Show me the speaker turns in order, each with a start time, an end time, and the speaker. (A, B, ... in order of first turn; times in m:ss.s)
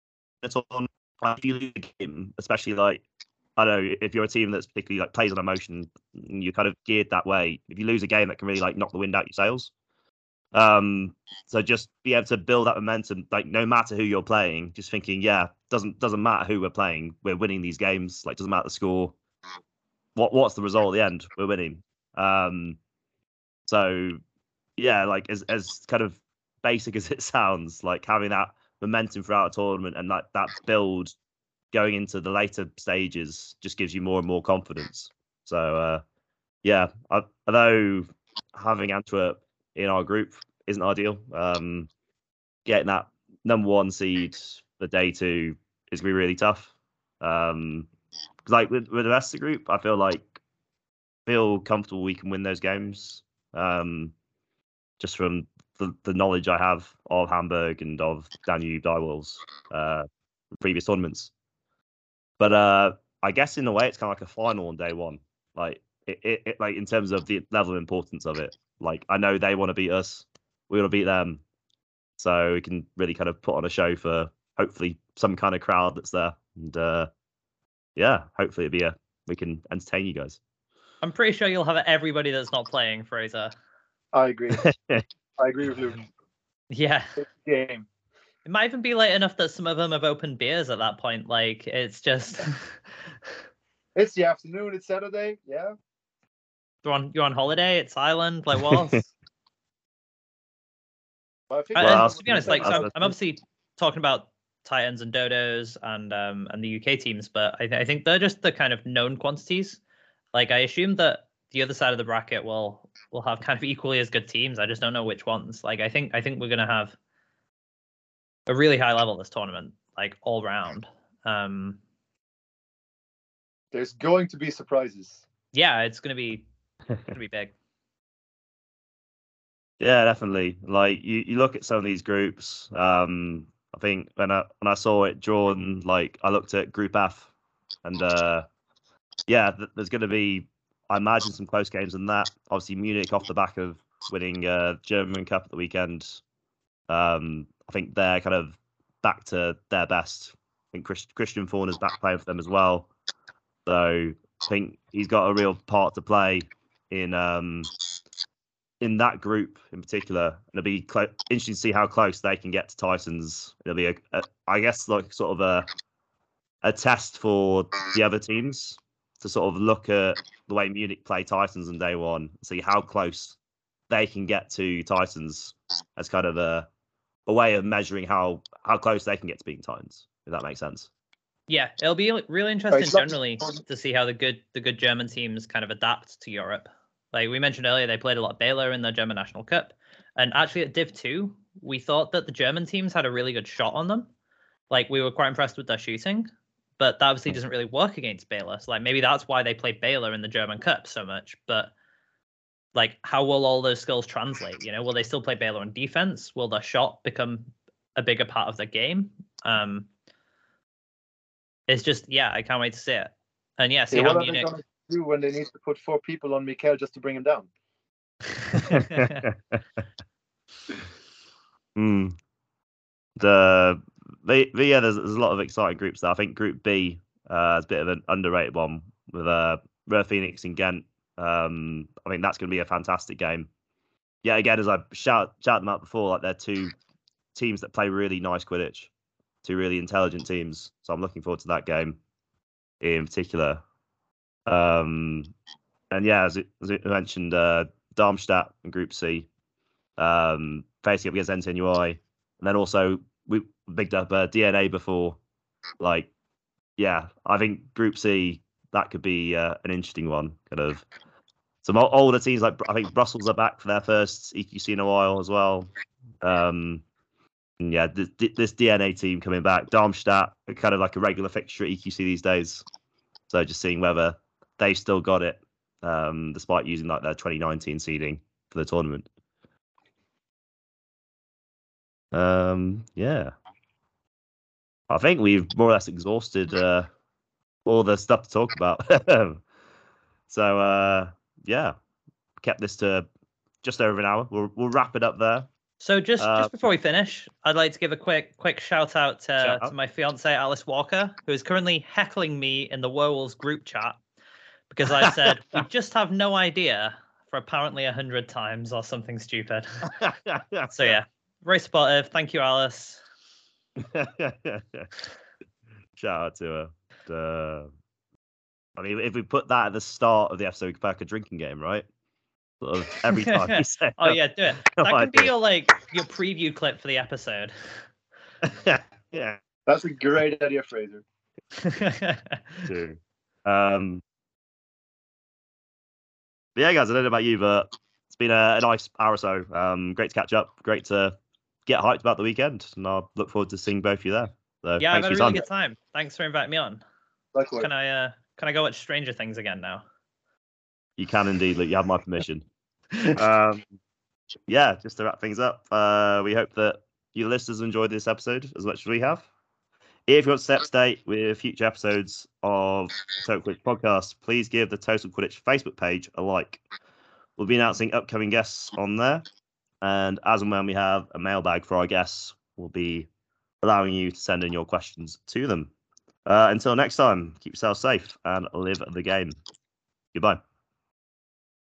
0:00.4-0:03.0 A
0:03.6-0:09.7 A
0:10.5-0:19.2 A
0:20.2-0:22.8 A
0:23.7-0:24.2 A
0:24.8-0:31.2 A
0:31.7-0:36.0 A
0:36.6-0:41.9 A
0:42.7-0:47.9 A
0:48.5-0:50.4 A
0:51.3-0:54.1 A
0:55.0-1:01.3 A
1:02.4-1:11.4 A
1:12.2-1:17.1 A
1:18.0-1:20.4 A
1:21.0-1:23.6 B
1:24.1-1:24.6 C
1:24.5-1:25.0 A
1:25.4-1:26.1 C
1:26.7-1:27.2 B
1:27.2-1:27.9 C
1:28.4-1:32.8 B
1:34.0-1:35.7 C
1:36.8-1:39.1 B
1:41.5-1:42.9 C
1:41.8-1:49.8 B
1:41.8-1:43.1 A
1:50.3-1:57.0 B
1:58.5-2:01.8 B
2:03.7-2:05.3 C
2:05.5-2:06.5 B
2:07.1-2:07.5 B
2:09.8-2:17.3 A
2:17.8-2:18.5 A
2:19.3-2:26.2 A
2:26.9-2:32.9 A
2:33.7-2:37.7 A
2:38.8-2:45.7 A
2:46.6-2:53.4 A
2:53.9-2:56.7 A
2:57.3-3:00.9 A
3:01.5-3:14.1 B
3:02.7-3:03.6 C
3:14.7-3:21.7 B
3:22.8-3:29.9 B
3:31.7-3:34.5 B
3:33.9-3:37.5 C
3:38.5-3:39.3 B
3:38.7-3:39.6 A
3:41.8-3:42.2 A
3:43.2-3:53.5 A
3:54.2-3:56.7 A
3:57.4-3:58.9 A
3:59.4-4:02.0 A
4:02.8-4:03.6 A
4:04.5-4:05.3 A
4:05.9-4:09.3 A
4:10.0-4:15.2 A
4:15.8-4:16.1 A
4:16.8-4:20.9 A
4:21.6-4:25.7 A
4:26.2-4:26.8 A
4:27.6-4:32.6 A
4:33.3-4:39.1 A
4:42.1-4:43.3 A
4:44.9-4:46.9 A
4:47.7-4:49.4 A
4:50.3-4:51.8 A
4:52.4-4:53.1 A
4:53.6-4:55.5 A
4:55.8-5:04.0 B
4:56.2-4:56.5 A
4:59.4-4:59.7 A
5:04.7-5:09.9 B
5:05.0-5:05.6 A
5:09.9-5:10.9 A
5:10.7-5:13.0 B
5:13.8-5:14.9 A
5:16.0-5:17.7 A
5:18.8-5:21.9 A
5:22.6-5:25.3 A
5:23.2-5:27.5 B
5:28.4-5:29.4 A
5:29.7-5:31.0 C
5:31.6-5:32.7 B
5:32.7-5:34.0 A
5:36.6-5:45.4 A
5:44.8-5:46.8 B
5:47.3-5:47.7 C
5:47.6-5:49.8 B
5:51.0-5:52.4 A
5:53.1-5:53.7 A
5:54.5-5:59.3 A
6:00.1-6:06.6 A
6:07.4-6:09.3 A
6:09.8-6:13.1 A
6:13.6-6:15.7 A
6:16.3-6:19.4 A
6:20.1-6:20.4 A